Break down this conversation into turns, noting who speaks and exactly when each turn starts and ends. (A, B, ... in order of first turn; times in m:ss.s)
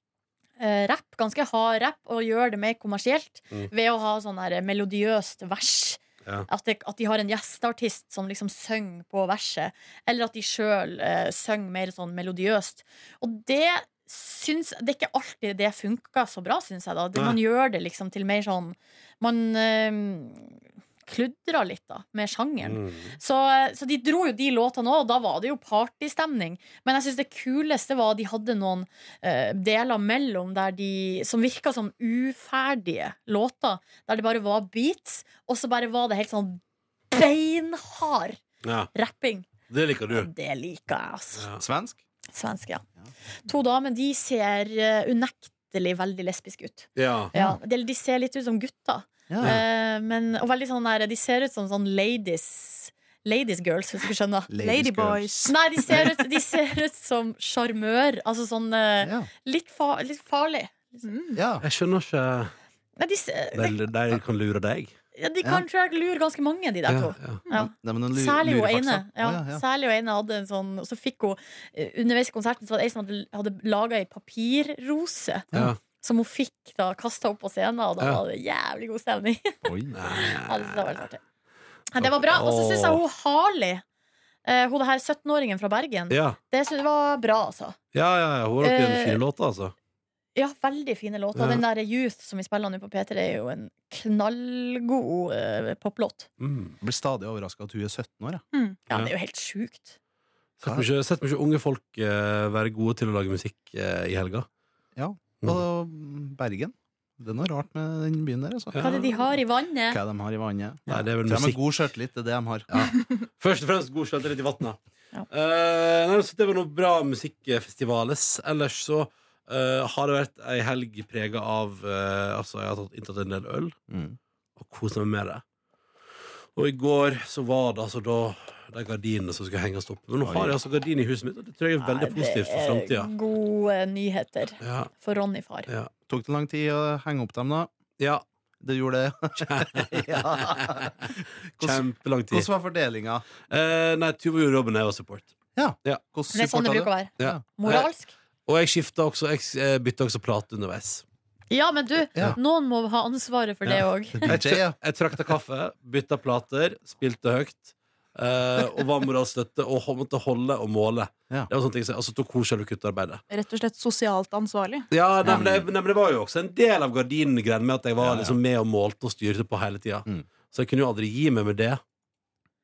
0:00.6-0:38.4 A
0:22.6-0:23.2 B
0:38.6-0:38.9 B
0:38.9-0:39.5 A
0:39.7-0:40.3 B
0:40.1-0:41.5 A
0:41.6-0:42.0 C
0:42.3-0:42.8 A
0:43.4-0:54.5 A
0:47.0-0:47.3 B
0:49.3-0:49.6 C
0:54.5-0:56.1 C
0:54.6-0:56.1 D
0:55.5-1:01.1 A
0:59.0-0:59.3 C
1:01.0-1:01.4 D
1:01.4-1:01.6 C
1:01.6-1:02.5 B
1:03.0-1:03.8 A
1:03.6-1:04.9 B
1:05.2-1:21.2 A
1:06.9-1:07.4 B
1:07.5-1:09.6 C
1:15.5-1:15.8 B
1:19.6-1:20.0 C
1:19.9-1:21.0 B
1:21.9-1:23.8 A
1:22.0-1:23.0 B
1:24.4-1:27.8 A
1:26.1-1:26.4 B
1:27.9-1:29.7 B
1:28.6-1:29.2 A
1:30.4-1:36.3 A
1:31.4-1:31.6 B
1:36.4-1:36.8 B
1:36.8-1:38.4 C
1:38.5-1:38.8 D
1:38.9-1:40.0 A
1:40.6-1:44.5 B
1:45.0-1:49.3 C
1:48.7-1:49.1 B
1:48.8-1:50.0 A
1:49.9-1:52.7 C
1:50.9-1:51.6 B
1:52.7-2:03.8 B
2:03.9-2:04.2 C
2:04.6-2:05.4 B
2:06.6-2:13.1 B
2:10.2-2:10.6 C
2:11.8-2:15.7 A
2:14.6-2:14.9 B
2:16.1-2:17.7 C
2:18.0-2:18.2 B
2:18.6-2:23.2 C
2:19.4-2:22.5 B
2:23.5-2:26.0 B
2:25.6-2:27.4 C
2:26.3-2:28.1 A
2:27.2-2:27.9 B
2:28.5-2:31.0 B
2:31.5-2:34.4 A
2:33.7-2:43.2 B
2:34.2-2:34.8 C
2:43.3-2:44.9 D
2:44.9-2:51.8 B
2:45.2-2:45.7 C
2:48.0-2:48.4 C